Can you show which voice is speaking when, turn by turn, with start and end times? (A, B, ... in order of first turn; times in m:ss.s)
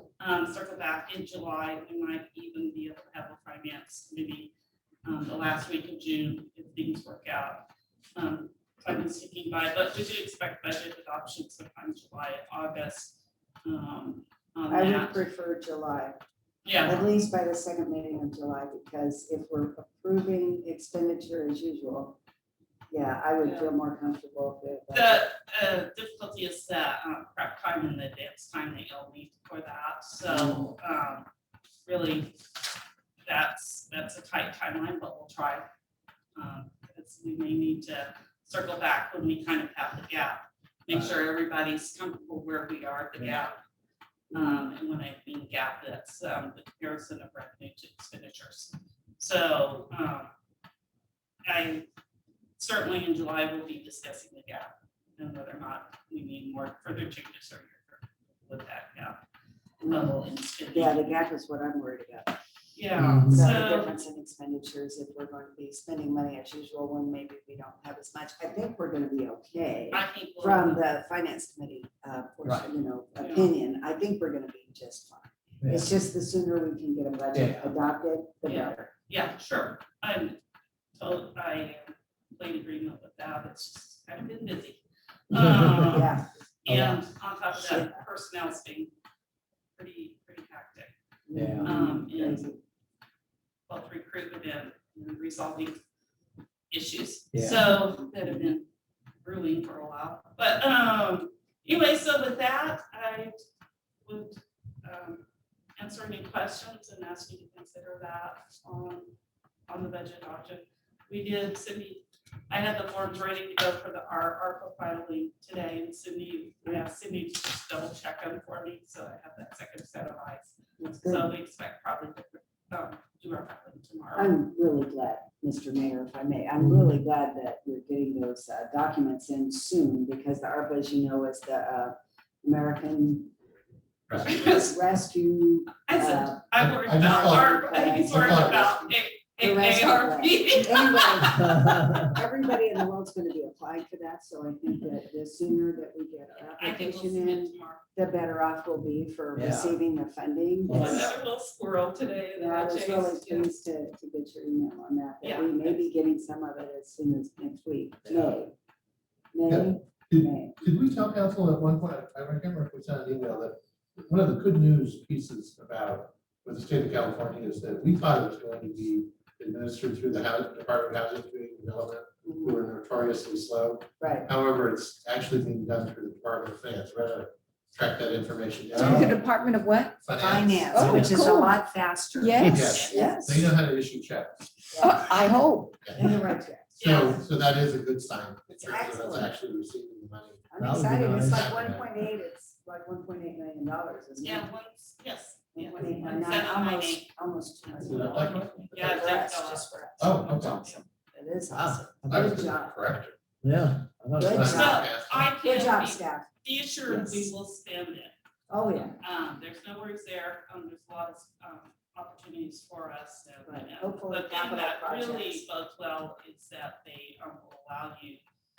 0:00.2-0:04.5 A
0:05.0-0:07.6 A
0:08.2-0:15.2 A
0:14.7-0:16.2 B
0:16.6-0:17.0 A
0:16.8-0:22.2 B
0:22.9-0:25.3 B
0:23.4-0:23.7 A
0:24.9-0:31.3 A
0:31.8-0:32.4 A
0:33.2-0:35.7 A
0:36.4-0:43.6 A
0:40.9-0:41.2 C
0:44.3-0:50.3 A
0:44.3-0:44.6 B
0:51.4-0:51.8 A
0:52.6-0:59.2 A
0:59.8-1:00.1 B
0:59.8-1:01.2 A
1:00.7-1:02.4 B
1:02.7-1:03.9 A
1:03.0-1:03.5 C
1:03.3-1:18.9 B
1:09.9-1:10.8 A
1:12.4-1:12.7 C
1:13.2-1:13.5 A
1:15.6-1:15.9 C
1:17.3-1:17.8 C
1:18.4-1:20.4 A
1:21.0-1:28.9 A
1:25.4-1:26.0 C
1:25.9-1:27.0 B
1:27.6-1:28.0 B
1:29.8-1:30.9 A
1:31.3-1:32.6 B
1:31.3-1:31.8 C
1:31.7-1:32.5 A
1:33.7-1:35.8 A
1:36.7-1:38.7 A
1:37.3-1:37.7 C
1:39.2-1:43.3 A
1:44.1-1:45.2 A
1:45.8-1:49.1 A
1:49.7-2:04.4 A
2:00.8-2:01.3 B
2:04.1-2:13.3 B
2:14.2-2:14.8 A
2:14.3-2:16.4 B
2:15.8-2:21.4 A
2:16.6-2:18.7 D
2:17.0-2:31.1 B
2:21.2-2:22.2 C
2:26.4-2:27.8 A
2:29.3-2:29.8 C
2:30.6-2:31.1 C
2:30.7-2:33.6 A
2:32.4-2:38.5 B
2:35.2-2:35.8 A
2:38.0-2:38.4 C
2:39.3-2:40.6 B
2:39.5-2:59.2 D
2:52.2-2:52.6 B
2:54.0-2:54.3 B
2:58.7-3:03.4 B
3:00.0-3:00.9 D
3:00.7-3:01.6 E
3:02.2-3:03.2 E
3:02.4-3:04.5 D
3:02.6-3:03.1 A
3:04.7-3:05.8 E
3:04.7-3:05.1 B
3:05.9-3:06.8 B
3:06.8-3:07.2 A
3:06.8-3:11.9 D
3:08.6-3:09.3 B
3:10.5-3:14.5 B
3:10.6-3:11.5 C
3:14.2-3:17.1 A
3:15.6-3:22.8 B
3:17.8-3:19.0 D
3:18.7-3:20.8 A
3:20.0-3:20.6 D
3:21.5-3:22.5 C
3:22.1-3:23.1 D
3:23.4-3:24.6 C
3:24.2-3:24.9 B
3:24.2-3:25.3 D
3:24.4-3:28.1 A
3:25.4-3:26.3 B
3:26.9-3:27.3 B
3:28.5-3:29.0 B
3:29.0-3:38.2 A
3:33.4-3:35.4 B